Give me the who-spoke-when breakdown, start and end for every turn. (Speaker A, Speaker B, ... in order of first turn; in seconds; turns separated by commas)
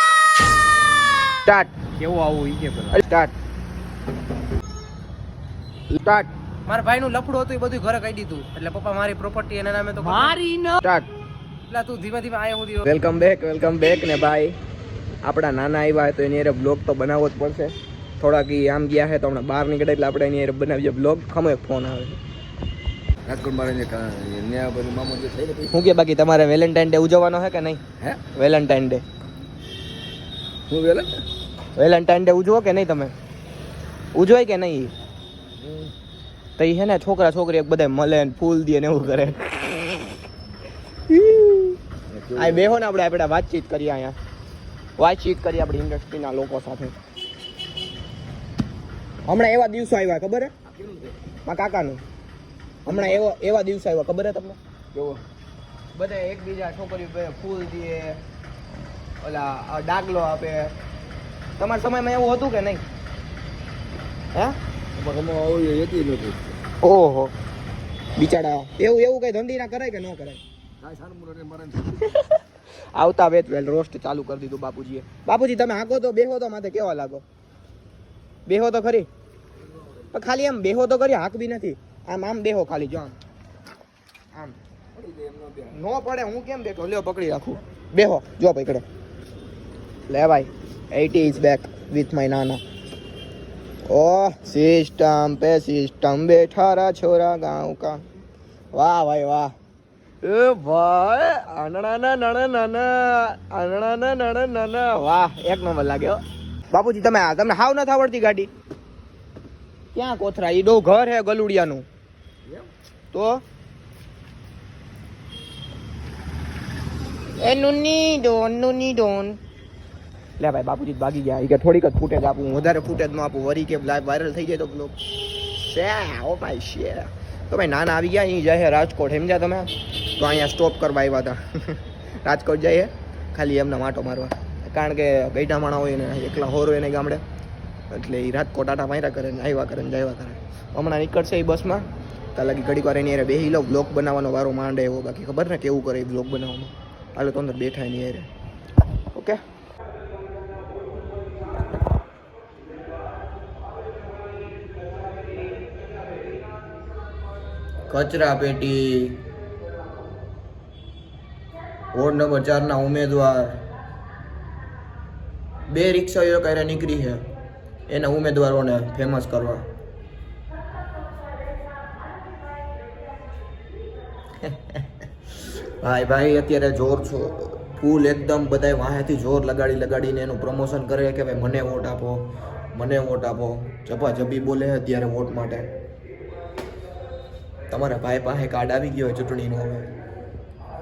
Speaker A: 1.4-1.8, Speaker B: 2.0-2.9, Speaker A: 2.9-3.3, Speaker A: 5.9-6.3, Speaker B: 6.7-10.8, Speaker A: 10.8-11.1, Speaker B: 11.7-12.9, Speaker A: 12.8-14.6, Speaker A: 15.2-22.2, Speaker C: 23.2-25.8, Speaker A: 25.7-29.0, Speaker C: 30.7-31.2, Speaker A: 31.8-33.1, Speaker A: 34.1-34.9, Speaker C: 35.6-35.9, Speaker A: 36.6-40.2, Speaker A: 41.1-41.8, Speaker C: 42.1-42.7, Speaker A: 42.3-44.2, Speaker A: 45.0-47.0, Speaker A: 49.2-50.5, Speaker C: 50.7-51.1, Speaker A: 51.4-52.0, Speaker A: 52.8-54.6, Speaker C: 54.9-55.2, Speaker A: 55.9-58.2, Speaker A: 59.2-60.7, Speaker A: 61.6-62.8, Speaker C: 65.0-66.5, Speaker A: 66.8-67.3, Speaker A: 68.2-70.4, Speaker C: 70.8-72.0, Speaker A: 71.9-72.4, Speaker A: 72.9-77.2, Speaker A: 78.5-79.1, Speaker A: 80.1-83.2, Speaker C: 84.9-85.7, Speaker A: 85.7-88.8, Speaker A: 90.1-92.6, Speaker A: 93.9-98.0, Speaker A: 98.7-99.5, Speaker A: 100.2-108.5, Speaker A: 109.9-111.9, Speaker A: 113.1-113.4, Speaker A: 117.4-119.4, Speaker A: 120.4-137.2, Speaker A: 137.9-148.3, Speaker A: 149.1-149.4, Speaker A: 157.9-159.2, Speaker A: 161.9-163.7, Speaker A: 165.7-167.2, Speaker A: 167.9-169.7, Speaker A: 174.4-185.7, Speaker A: 187.7-189.9